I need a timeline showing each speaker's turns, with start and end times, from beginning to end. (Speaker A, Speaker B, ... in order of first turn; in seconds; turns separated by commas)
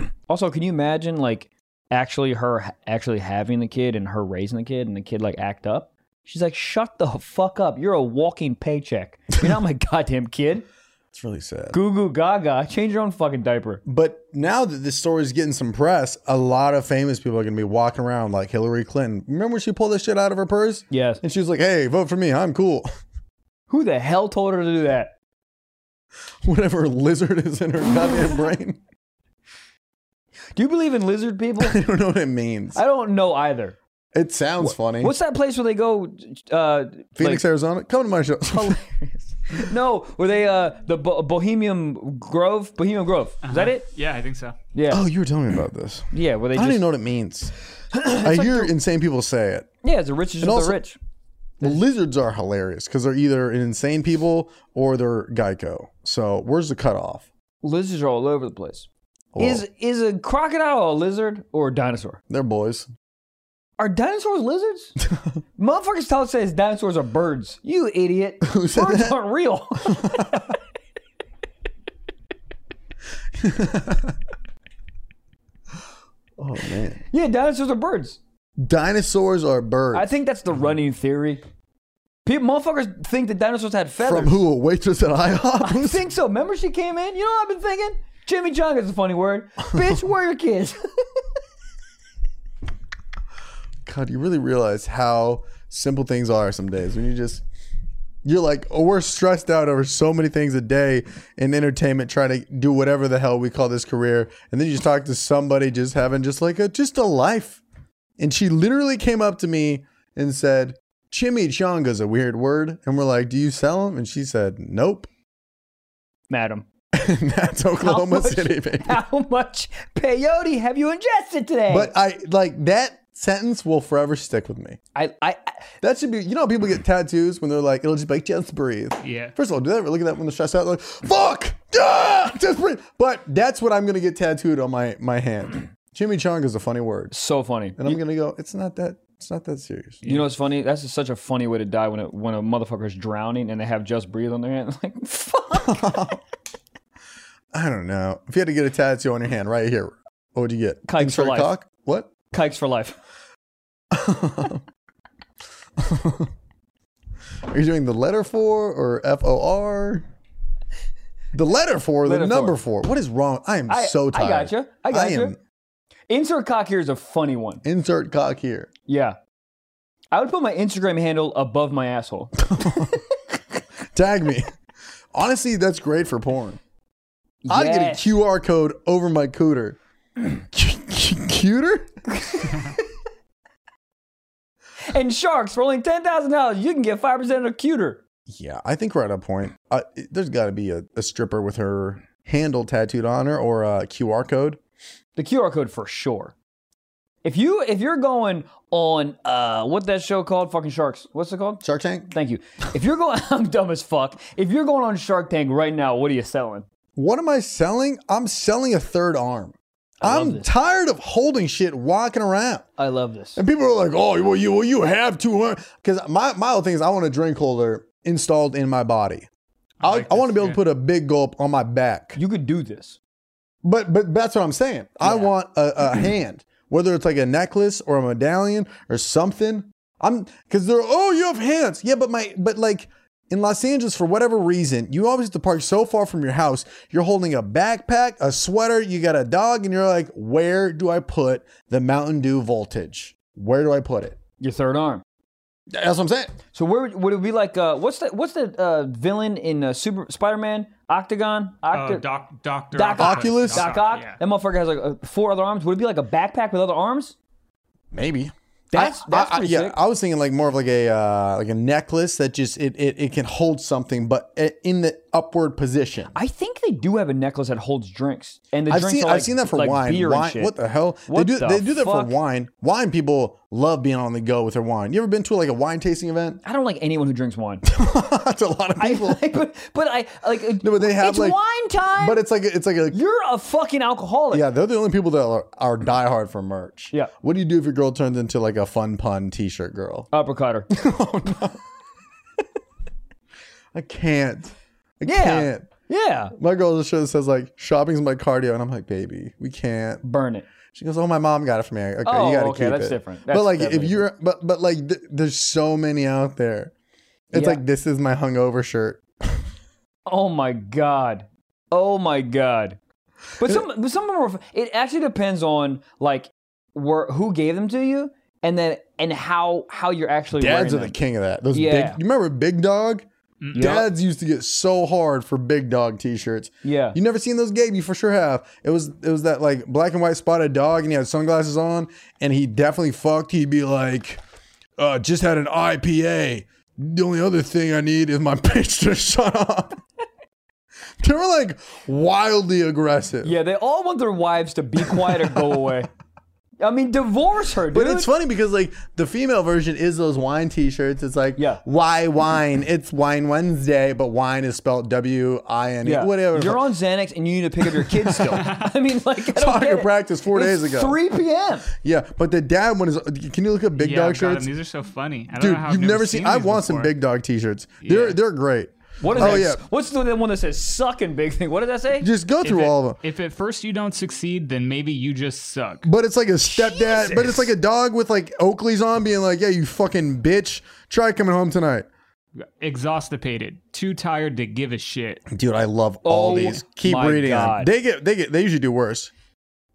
Speaker A: 0.3-10.7, Speaker B: 11.1-11.8, Speaker A: 11.7-13.8, Speaker B: 13.9-22.9, Speaker A: 20.9-21.2, Speaker A: 23.7-25.1, Speaker B: 26.4-28.8, Speaker A: 30.6-31.8, Speaker B: 31.6-32.8, Speaker A: 32.8-33.8, Speaker B: 34.1-35.1, Speaker A: 34.6-37.4, Speaker B: 37.2-38.8, Speaker A: 38.5-43.9, Speaker C: 43.4-44.6, Speaker A: 44.7-45.0, Speaker B: 44.9-47.5, Speaker A: 46.1-46.8, Speaker A: 47.9-48.7, Speaker B: 48.1-49.7, Speaker A: 49.8-51.0, Speaker B: 50.4-50.8, Speaker B: 51.6-57.3, Speaker A: 57.6-62.2, Speaker B: 59.3-59.6, Speaker B: 62.3-62.9, Speaker A: 63.8-65.0, Speaker A: 65.6-70.5, Speaker B: 68.4-69.2, Speaker B: 69.9-70.4, Speaker B: 73.4-74.2, Speaker B: 76.4-77.0, Speaker A: 77.1-78.2, Speaker B: 78.6-80.1, Speaker A: 79.9-81.4, Speaker A: 82.2-84.4, Speaker B: 84.0-86.1, Speaker A: 85.6-91.0, Speaker B: 89.7-90.0, Speaker B: 93.8-97.4, Speaker B: 98.2-107.6, Speaker B: 108.2-115.1, Speaker A: 116.3-116.7, Speaker B: 116.9-119.0, Speaker A: 117.8-121.9, Speaker B: 121.7-124.8, Speaker A: 125.0-125.6, Speaker B: 125.8-137.1, Speaker C: 129.0-129.3, Speaker A: 137.1-138.0, Speaker B: 137.8-140.0, Speaker C: 140.0-140.3, Speaker A: 140.1-146.1, Speaker B: 145.5-146.2, Speaker B: 147.5-152.1, Speaker A: 150.9-151.5, Speaker A: 152.3-153.0, Speaker B: 153.9-154.6, Speaker B: 155.8-156.3, Speaker B: 157.5-160.1, Speaker B: 161.3-165.4, Speaker A: 162.1-162.6, Speaker A: 163.7-165.3, Speaker A: 166.1-167.6, Speaker B: 167.6-168.7, Speaker A: 168.9-169.2, Speaker A: 170.1-172.8, Speaker B: 172.4-173.0, Speaker B: 173.8-174.5, Speaker B: 175.1-176.6, Speaker A: 177.4-178.1, Speaker B: 177.5-181.9, Speaker A: 182.1-182.9, Speaker A: 184.9-188.0, Speaker B: 188.3-194.6, Speaker A: 195.2-196.3, Speaker A: 197.2-206.7, Speaker B: 201.6-202.1, Speaker B: 207.0-212.7, Speaker A: 210.0-210.5, Speaker A: 212.8-213.4, Speaker B: 213.4-219.3, Speaker C: 219.8-220.6, Speaker B: 219.8-222.2, Speaker A: 222.2-223.0, Speaker B: 223.6-244.2, Speaker A: 225.0-225.3, Speaker A: 244.4-245.0, Speaker B: 245.7-246.4, Speaker A: 246.5-252.1, Speaker C: 251.7-254.2, Speaker A: 252.7-257.2, Speaker B: 253.0-253.7, Speaker B: 257.9-266.1, Speaker A: 258.7-259.8, Speaker A: 266.1-270.6, Speaker B: 268.7-276.4, Speaker A: 271.1-272.1, Speaker A: 276.4-277.7, Speaker B: 277.6-279.4, Speaker A: 278.8-282.2, Speaker B: 280.6-281.4, Speaker B: 282.0-283.0, Speaker A: 282.9-284.4, Speaker B: 284.3-290.1, Speaker A: 290.1-290.7, Speaker B: 290.7-291.6, Speaker B: 293.7-295.7, Speaker A: 295.1-296.3, Speaker B: 296.4-300.0, Speaker A: 300.0-300.5, Speaker B: 300.7-306.7, Speaker A: 302.0-304.1, Speaker B: 307.3-309.4, Speaker A: 307.3-307.6, Speaker A: 310.1-312.8, Speaker A: 313.4-321.0, Speaker B: 320.4-334.2, Speaker A: 321.5-322.0, Speaker C: 323.4-323.8, Speaker A: 323.5-323.9, Speaker A: 326.6-327.0, Speaker B: 334.8-339.8, Speaker B: 341.0-343.4, Speaker A: 343.2-345.9, Speaker B: 344.8-345.8, Speaker A: 346.6-348.1, Speaker B: 347.7-356.6, Speaker A: 351.4-351.6, Speaker A: 355.8-361.7, Speaker B: 357.8-358.4, Speaker B: 359.2-361.0, Speaker B: 361.7-364.5, Speaker C: 363.8-366.9, Speaker B: 365.4-369.6, Speaker C: 367.8-368.2, Speaker A: 369.0-372.1, Speaker B: 372.0-373.0, Speaker C: 372.4-375.9, Speaker B: 375.8-381.9, Speaker A: 376.5-377.5, Speaker C: 382.4-385.2, Speaker B: 385.3-389.1, Speaker A: 386.1-387.7